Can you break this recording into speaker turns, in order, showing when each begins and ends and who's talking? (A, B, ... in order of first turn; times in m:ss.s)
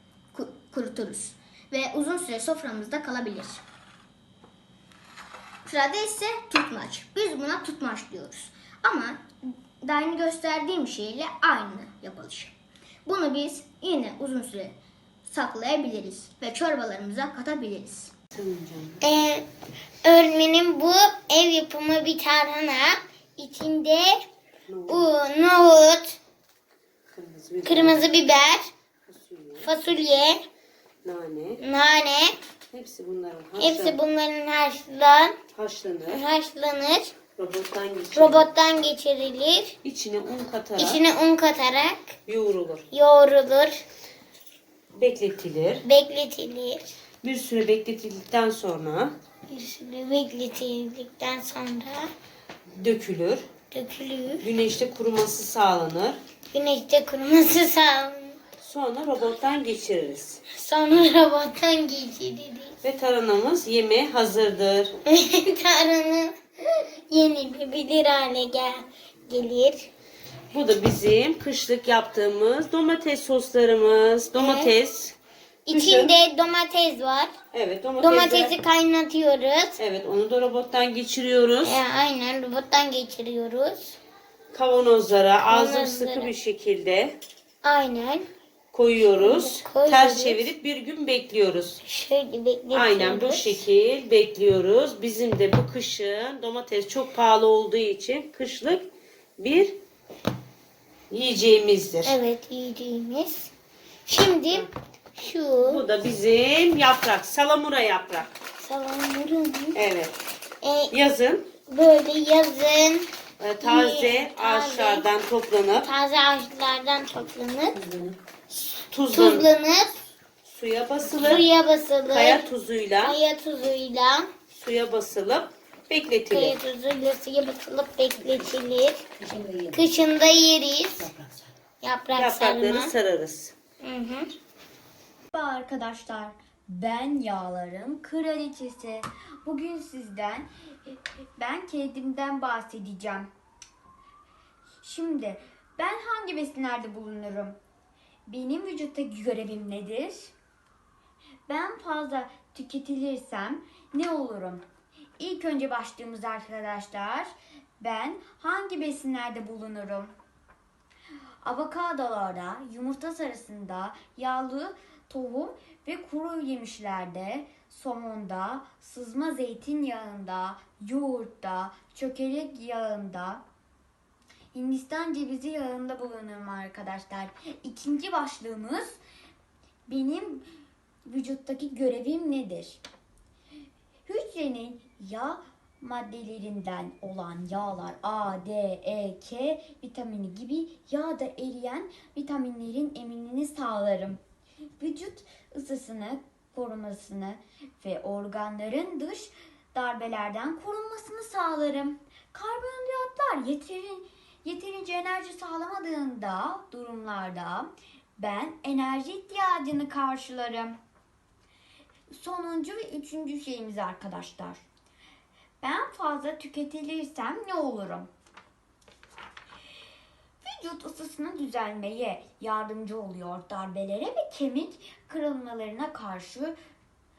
0:00.3-0:03.6 A
0:05.7-0:09.3 A
0:09.8-0:18.1 A
0:18.4-0:19.0 B
0:19.0-0:19.4 C
0:20.0-0:24.2 C
0:24.7-0:25.1 B
0:24.9-0:26.2 C
0:27.1-0:28.1 B
0:27.6-0:28.7 C
0:29.1-0:29.7 B
0:29.6-0:30.4 C
0:31.0-0:31.6 B
0:31.6-0:32.4 C
0:32.7-0:34.0 B
0:33.6-0:35.4 C
0:35.5-0:36.2 B
0:36.1-0:37.1 C
0:37.4-0:38.5 B
0:38.2-0:39.7 C
0:39.8-0:41.0 B
0:40.8-0:42.1 C
0:42.3-0:42.8 B
0:42.9-0:43.8 C
0:44.9-0:45.8 B
0:45.8-0:46.9 C
0:47.2-0:49.2 B
0:49.5-0:52.1 C
0:52.7-0:53.5 B
0:53.7-0:54.5 C
0:54.4-0:56.2 B
0:56.5-0:58.4 C
0:58.6-1:00.4 B
1:00.5-1:02.7 C
1:02.8-1:05.0 B
1:05.1-1:09.9 C
1:10.5-1:15.2 B
1:14.4-1:14.7 C
1:15.7-1:17.3 C
1:15.7-1:16.2 B
1:17.5-1:18.6 B
1:18.0-1:19.8 C
1:19.8-1:21.8 B
1:21.6-1:24.0 C
1:24.5-1:27.2 B
1:25.4-1:26.3 C
1:27.6-1:28.3 C
1:28.7-1:31.8 B
1:29.0-1:30.5 C
1:31.8-1:33.6 C
1:32.7-1:39.8 B
1:41.1-1:42.2 B
1:42.0-1:43.5 C
1:44.1-1:45.8 C
1:45.6-1:48.3 B
1:48.6-1:49.8 C
1:49.8-1:50.1 B
1:50.6-1:50.9 C
1:50.9-1:51.5 B
1:51.7-1:53.1 C
1:53.4-1:55.9 B
1:53.6-1:55.1 C
1:55.8-1:57.8 C
1:57.8-1:58.2 B
1:58.9-1:59.5 B
1:59.1-2:00.0 C
2:00.4-2:01.5 B
2:01.0-2:02.5 C
2:02.1-2:03.2 B
2:03.0-2:04.3 C
2:04.5-2:06.6 B
2:06.3-2:09.0 C
2:09.4-2:09.7 B
2:09.7-2:11.1 C
2:11.8-2:12.9 C
2:12.2-2:13.6 B
2:13.8-2:14.3 C
2:15.3-2:20.5 D
2:21.4-2:23.3 D
2:24.8-2:27.6 D
2:28.3-2:30.3 D
2:31.5-2:34.6 D
2:35.2-2:37.3 D
2:37.8-2:40.1 D
2:41.4-2:53.4 D
2:54.5-2:59.0 D
2:59.9-3:00.4 D
3:01.1-3:02.8 D
3:04.1-3:14.2 D
3:14.8-3:30.8 D
3:32.2-3:34.6 D
3:35.6-3:38.1 D
3:40.4-3:46.5 D